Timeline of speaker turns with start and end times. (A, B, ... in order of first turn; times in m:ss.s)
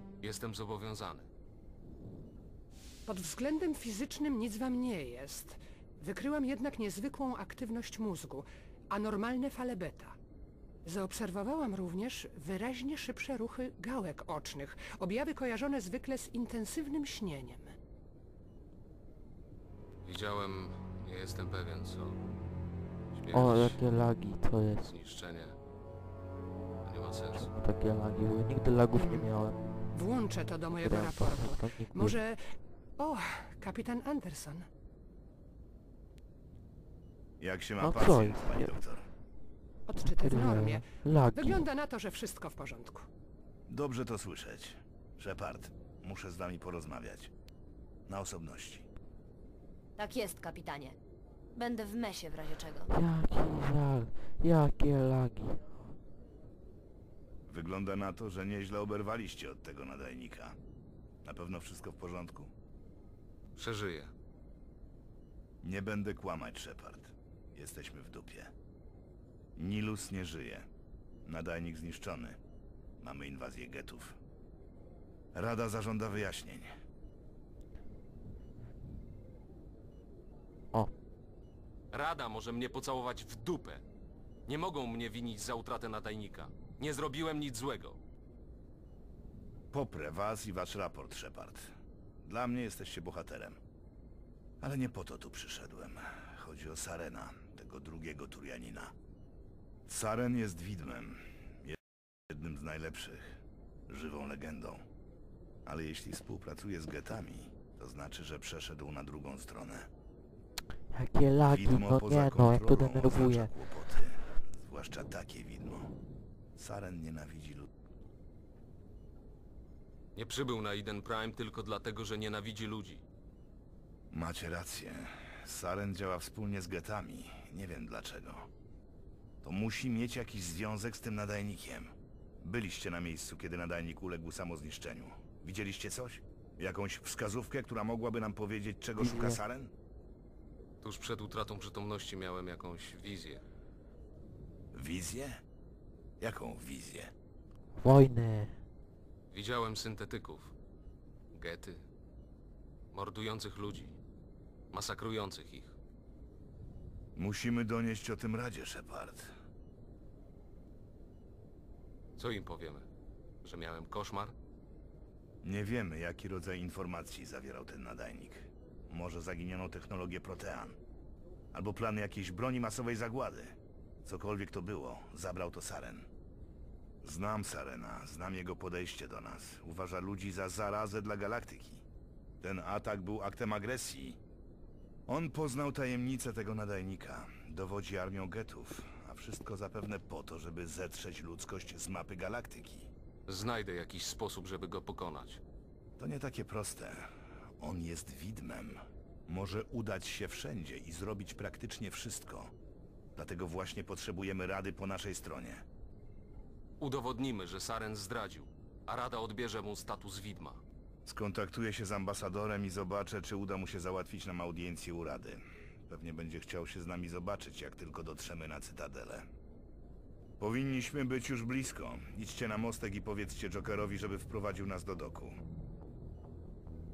0:00.2-0:01.3 A
0:03.1-0:10.2 B
0:10.9-0:17.7 B
0:20.0-0:22.2 A
0:23.1-0:23.8 A
0:23.3-0:24.9 C
0:24.8-0:25.6 A
0:26.8-0:27.5 A
0:27.3-0:29.6 C
0:28.9-0:29.3 B
0:29.9-0:34.7 B
0:30.7-0:32.2 C
0:37.4-0:39.1 D
0:37.8-0:38.8 C
0:39.9-0:43.1 B
0:40.0-0:41.7 C
0:43.7-0:47.3 D
0:48.1-0:48.9 D
0:50.0-0:51.0 E
0:51.5-0:52.9 E
0:52.9-0:55.9 C
0:57.5-1:00.6 D
1:01.2-1:02.5 D
1:03.6-1:04.1 A
1:05.6-1:08.5 D
1:09.6-1:10.7 D
1:11.2-1:12.4 D
1:13.0-1:14.2 D
1:15.4-1:16.7 D
1:21.9-1:23.8 A
1:24.5-1:28.0 A
1:29.7-1:31.7 D
1:32.3-1:33.6 D
1:34.6-1:38.9 D
1:39.9-1:41.8 D
1:42.3-1:44.8 D
1:45.7-1:49.9 D
1:50.9-1:53.5 C
1:51.5-1:55.9 D
1:56.6-1:57.7 D
2:00.2-2:03.0 A
2:04.1-2:08.5 D
2:09.4-2:19.7 D
2:19.0-2:19.4 C
2:20.8-2:23.4 A
2:24.7-2:25.4 D
2:26.2-2:27.1 D
2:27.8-2:28.6 C
2:29.3-2:30.5 A
2:31.3-2:31.8 A
2:32.9-2:34.0 A
2:34.7-2:35.8 A
2:37.2-2:39.3 D
2:42.2-2:42.9 A
2:43.4-2:44.4 A
2:45.4-2:50.8 D
2:51.5-2:56.1 D
2:57.0-3:01.8 D
3:02.4-3:04.2 D
3:05.1-3:12.9 D
3:13.3-3:15.4 A
3:16.0-3:17.1 D
3:17.6-3:22.5 D
3:23.2-3:25.6 D
3:26.8-3:30.6 A
3:31.0-3:39.3 D
3:40.4-3:45.4 D